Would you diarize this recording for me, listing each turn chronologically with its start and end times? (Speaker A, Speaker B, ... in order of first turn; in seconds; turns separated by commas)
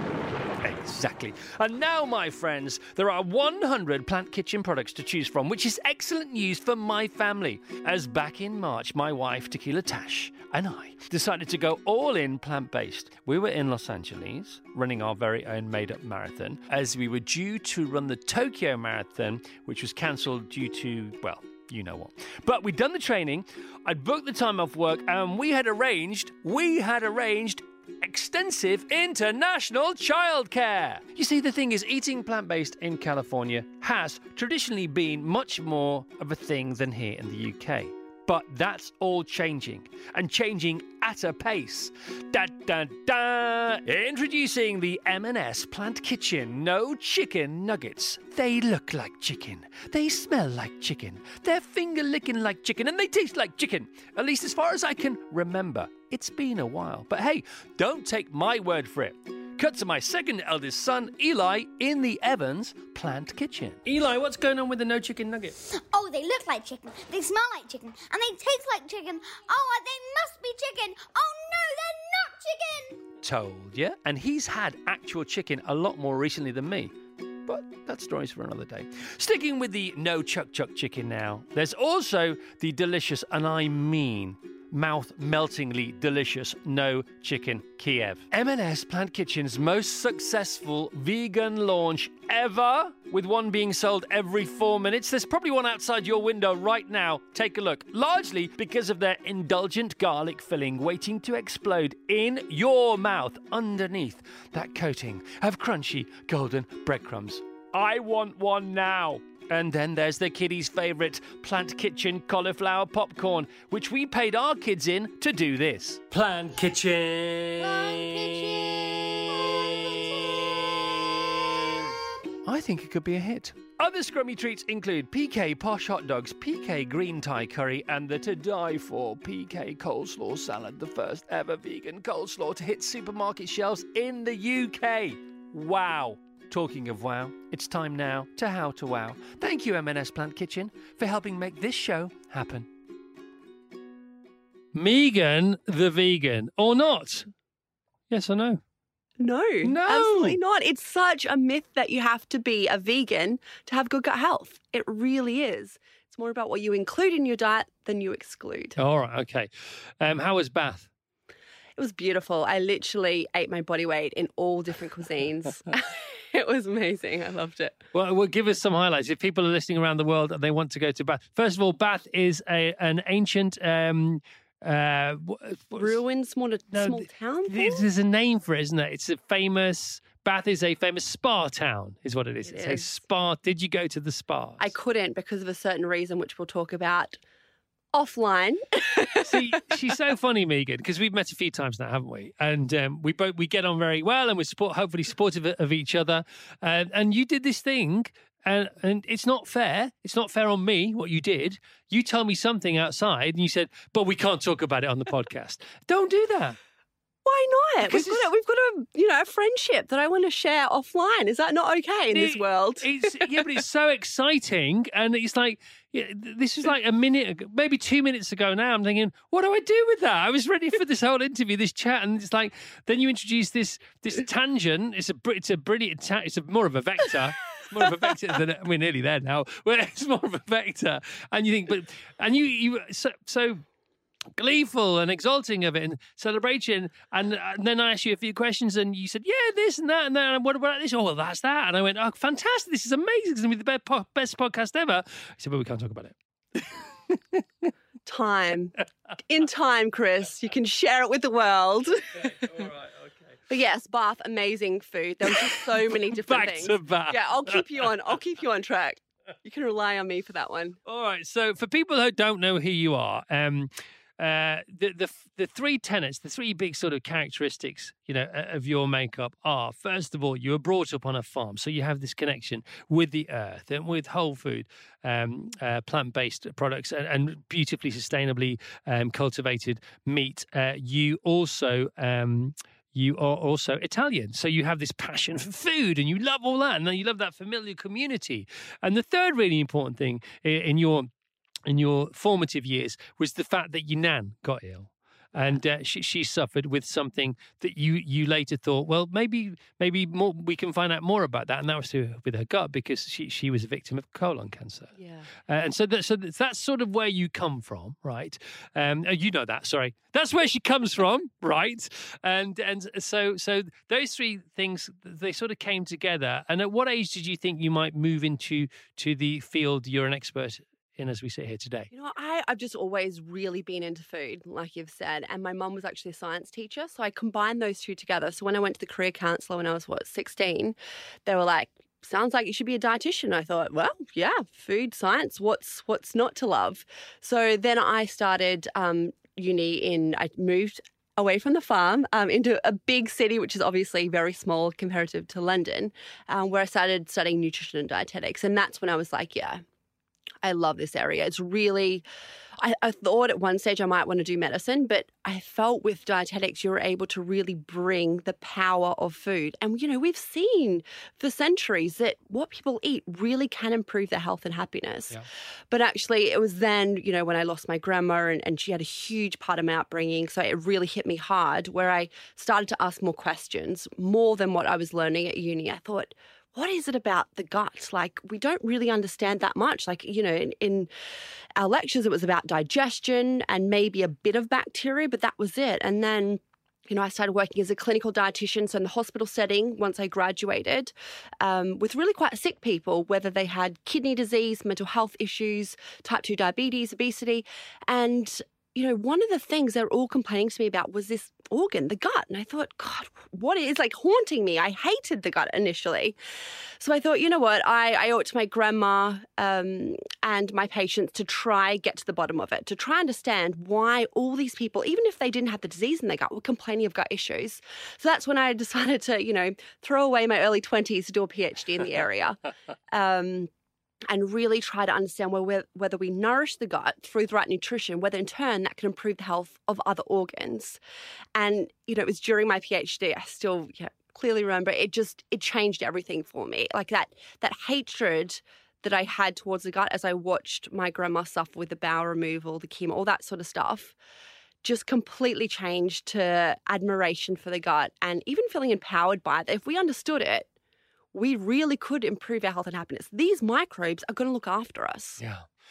Speaker A: 0.6-65.6, Speaker B: 65.6-73.0, Speaker A: 73.2-76.9, Speaker A: 77.5-121.9, Speaker B: 117.6-120.6, Speaker A: 122.4-142.7, Speaker A: 144.7-147.3, Speaker A: 148.1-148.6, Speaker C: 149.2-158.8, Speaker A: 149.6-150.4, Speaker A: 158.8-160.9, Speaker C: 161.8-167.8, Speaker A: 167.9-175.9, Speaker C: 175.8-177.8, Speaker A: 176.7-184.7, Speaker C: 182.4-183.0, Speaker C: 184.6-187.2, Speaker C: 187.9-189.6, Speaker A: 189.2-206.6, Speaker C: 207.2-213.4, Speaker A: 207.8-208.3, Speaker A: 212.1-233.6, Speaker A: 234.3-247.4, Speaker C: 248.1-252.7, Speaker A: 252.2-253.3, Speaker C: 253.5-260.8, Speaker A: 255.3-257.9, Speaker A: 260.8-291.1, Speaker A: 291.6-304.9, Speaker C: 305.0-305.3, Speaker A: 305.5-321.9, Speaker C: 321.9-330.7, Speaker C: 331.2-349.6, Speaker C: 350.4-352.0, Speaker C: 352.6-380.9, Speaker C: 381.6-406.1, Speaker C: 406.8-423.5, Speaker C: 424.1-430.8, Speaker C: 431.3-443.9, Speaker C: 444.6-450.5, Speaker C: 451.1-455.2, Speaker A: 455.2-455.4